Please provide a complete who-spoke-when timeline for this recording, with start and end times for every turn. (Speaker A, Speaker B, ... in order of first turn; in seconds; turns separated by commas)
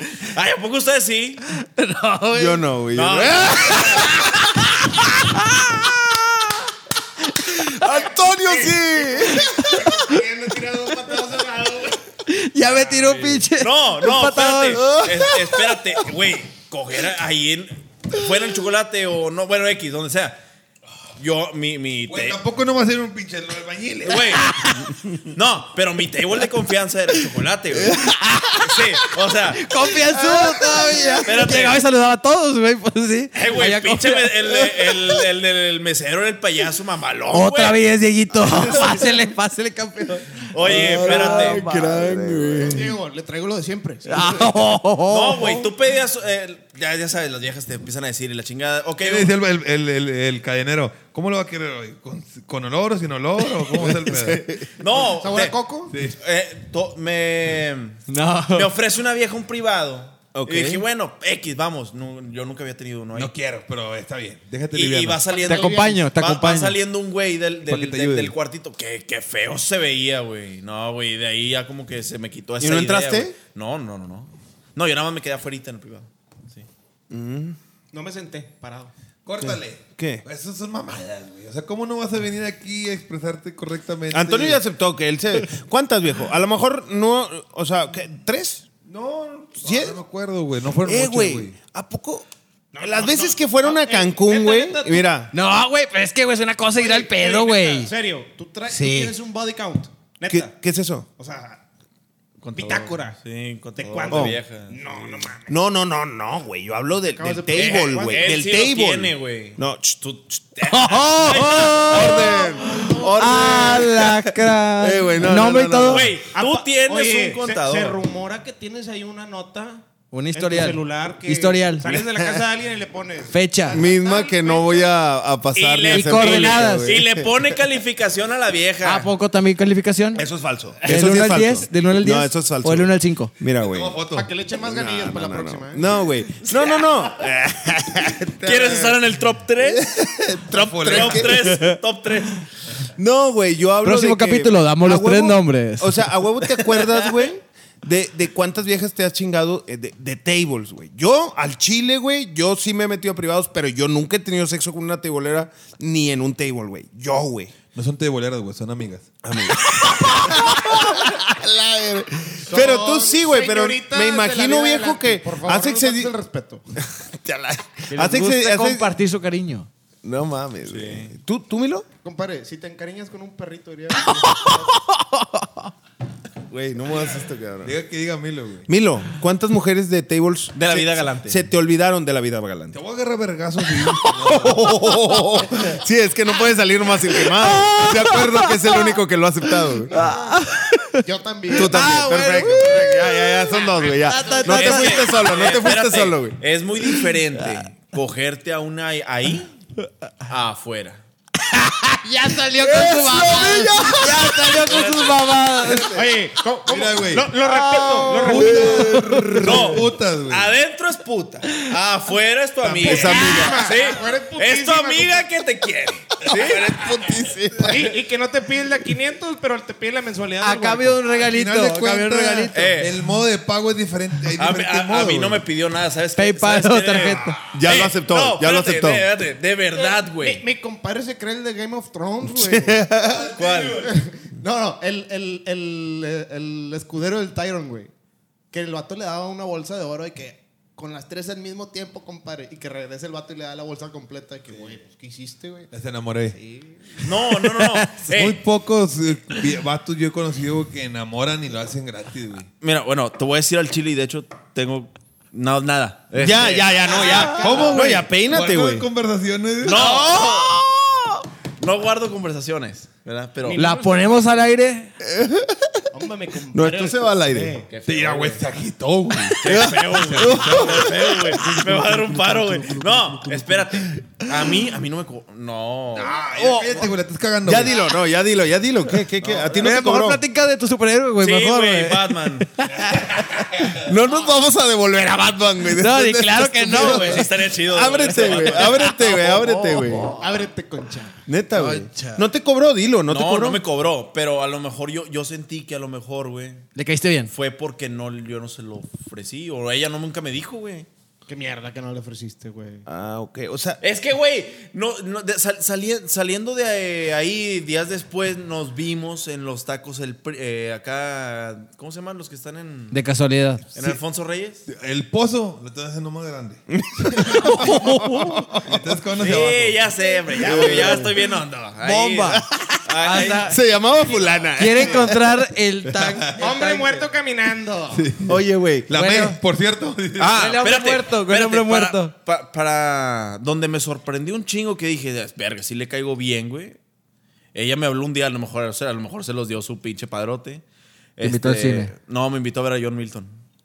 Speaker A: 0.1-1.4, Speaker B: 1.5-2.6, Speaker C: 2.3-4.0, Speaker A: 2.9-4.1, Speaker B: 3.7-6.5, Speaker B: 7.2-10.2, Speaker D: 7.8-12.0, Speaker B: 12.2-15.8, Speaker A: 12.7-20.4, Speaker A: 21.2-22.4, Speaker E: 22.1-24.4, Speaker A: 24.0-28.0, Speaker B: 24.3-24.9, Speaker B: 27.8-35.0, Speaker A: 28.6-29.8, Speaker C: 30.3-31.2, Speaker A: 31.2-31.8, Speaker A: 33.3-37.8, Speaker B: 37.3-42.4, Speaker A: 40.5-41.6, Speaker C: 40.6-42.9, Speaker D: 42.6-44.5, Speaker B: 44.1-45.7, Speaker A: 45.1-49.3, Speaker E: 49.0-54.5, Speaker C: 53.6-54.7, Speaker A: 54.8-63.3, Speaker D: 55.1-55.9, Speaker E: 55.9-56.2, Speaker B: 58.1-58.7, Speaker C: 60.3-60.8, Speaker E: 63.1-65.3, Speaker A: 64.7-76.7, Speaker D: 65.3-66.0, Speaker B: 65.4-66.8, Speaker E: 67.7-68.3, Speaker C: 72.6-73.3, Speaker C: 77.1-77.6, Speaker D: 77.9-78.9, Speaker E: 79.2-84.6, Speaker C: 80.0-80.2, Speaker C: 84.1-88.7, Speaker E: 88.8-91.5, Speaker C: 89.6-90.0, Speaker C: 90.8-92.3, Speaker D: 92.7-95.1, Speaker C: 92.8-95.3, Speaker B: 95.3-97.9, Speaker D: 96.7-100.5, Speaker C: 98.7-99.1, Speaker C: 100.3-101.1, Speaker D: 101.2-101.6, Speaker A: 102.4-105.2, Speaker D: 102.5-103.2, Speaker D: 103.8-105.5, Speaker C: 104.1-104.4, Speaker C: 105.5-110.6, Speaker D: 107.1-108.4, Speaker A: 107.5-109.6, Speaker A: 110.2-112.4, Speaker B: 110.6-116.1, Speaker C: 111.3-116.1, Speaker D: 112.0-113.2, Speaker A: 115.8-118.0, Speaker D: 116.3-124.9, Speaker B: 120.1-121.9, Speaker C: 121.8-122.4, Speaker B: 123.3-123.8, Speaker C: 123.7-127.4, Speaker A: 125.5-129.1, Speaker B: 125.9-126.9, Speaker B: 128.8-130.2, Speaker C: 130.1-134.0, Speaker B: 130.8-133.3, Speaker E: 133.6-134.3, Speaker D: 134.1-135.9, Speaker C: 134.6-139.0, Speaker A: 136.4-137.1, Speaker A: 138.4-139.9, Speaker C: 139.6-141.8, Speaker E: 140.5-141.5, Speaker A: 140.8-142.5, Speaker C: 142.9-157.5, Speaker B: 143.8-146.1, Speaker A: 146.7-147.1, Speaker E: 157.7-159.1, Speaker C: 159.2-166.1, Speaker D: 162.4-166.6, Speaker C: 166.8-168.9, Speaker B: 167.9-169.7, Speaker C: 170.0-171.9, Speaker A: 170.7-171.1, Speaker D: 172.0-174.7, Speaker B: 174.0-175.7, Speaker C: 176.5-177.7, Speaker E: 177.6-178.7, Speaker C: 178.7-182.8, Speaker A: 180.6-181.4, Speaker E: 182.7-184.7, Speaker C: 184.2-190.1, Speaker B: 184.8-185.3, Speaker B: 187.1-189.0, Speaker E: 187.8-188.3, Speaker B: 189.9-192.9, Speaker D: 190.0-190.4, Speaker D: 191.0-192.1, Speaker C: 191.5-196.4, Speaker B: 193.9-195.1, Speaker A: 194.4-199.5, Speaker A: 200.2-201.0, Speaker B: 201.5-206.0, Speaker C: 202.6-204.6, Speaker A: 204.4-205.2, Speaker D: 205.9-208.9, Speaker E: 206.7-207.3, Speaker B: 207.7-209.4, Speaker C: 207.8-209.7, Speaker E: 208.1-210.5, Speaker A: 209.4-217.2, Speaker C: 212.7-213.7, Speaker D: 212.8-215.2, Speaker C: 216.2-217.9, Speaker D: 217.7-221.1, Speaker B: 220.4-222.8, Speaker E: 221.2-225.4, Speaker A: 222.5-223.0, Speaker A: 224.4-230.4, Speaker B: 226.2-227.4, Speaker C: 227.4-229.1, Speaker D: 229.7-232.9, Speaker C: 232.2-233.3, Speaker E: 233.2-233.8, Speaker A: 233.3-233.9, Speaker D: 233.8-237.9, Speaker D: 238.5-245.7, Speaker E: 245.7-246.4, Speaker D: 246.3-247.1, Speaker A: 247.0-248.4, Speaker B: 247.1-248.0, Speaker E: 248.1-252.5, Speaker A: 252.6-257.8, Speaker C: 256.1-258.9, Speaker E: 257.0-259.9, Speaker A: 259.6-260.6, Speaker A: 261.6-263.6, Speaker D: 263.4-264.1, Speaker B: 263.5-264.9, Speaker C: 265.0-265.8, Speaker D: 265.9-267.7, Speaker C: 266.5-267.6, Speaker A: 267.7-268.4, Speaker E: 267.9-273.7, Speaker A: 269.4-276.1, Speaker C: 269.4-271.6, Speaker E: 275.9-277.8, Speaker C: 276.2-276.9, Speaker C: 277.4-280.2, Speaker A: 279.2-279.5, Speaker B: 279.5-283.2, Speaker A: 281.2-282.5, Speaker C: 283.8-290.1, Speaker B: 285.7-287.3, Speaker A: 286.7-290.0, Speaker B: 288.4-288.9, Speaker D: 290.1-291.2, Speaker C: 291.3-293.6, Speaker B: 291.5-292.2, Speaker A: 293.1-296.7, Speaker B: 296.7-297.3, Speaker A: 297.3-300.9, Speaker D: 301.3-302.9, Speaker C: 302.9-303.8, Speaker A: 303.8-313.0, Speaker B: 312.9-313.6, Speaker A: 313.7-314.6, Speaker E: 314.7-316.6, Speaker C: 316.7-318.8, Speaker E: 317.2-317.4, Speaker B: 317.2-318.6, Speaker E: 318.6-319.9, Speaker A: 319.2-323.6, Speaker C: 320.4-321.2, Speaker E: 320.5-321.0, Speaker B: 321.8-323.6, Speaker C: 322.3-322.6, Speaker C: 323.4-325.3, Speaker B: 324.6-327.0, Speaker E: 326.0-326.3, Speaker D: 326.4-328.2, Speaker C: 328.2-328.9, Speaker E: 328.9-330.6, Speaker B: 328.9-329.4, Speaker A: 330.2-336.8, Speaker B: 330.2-332.1, Speaker A: 337.5-340.6, Speaker A: 341.2-343.3, Speaker B: 341.2-341.9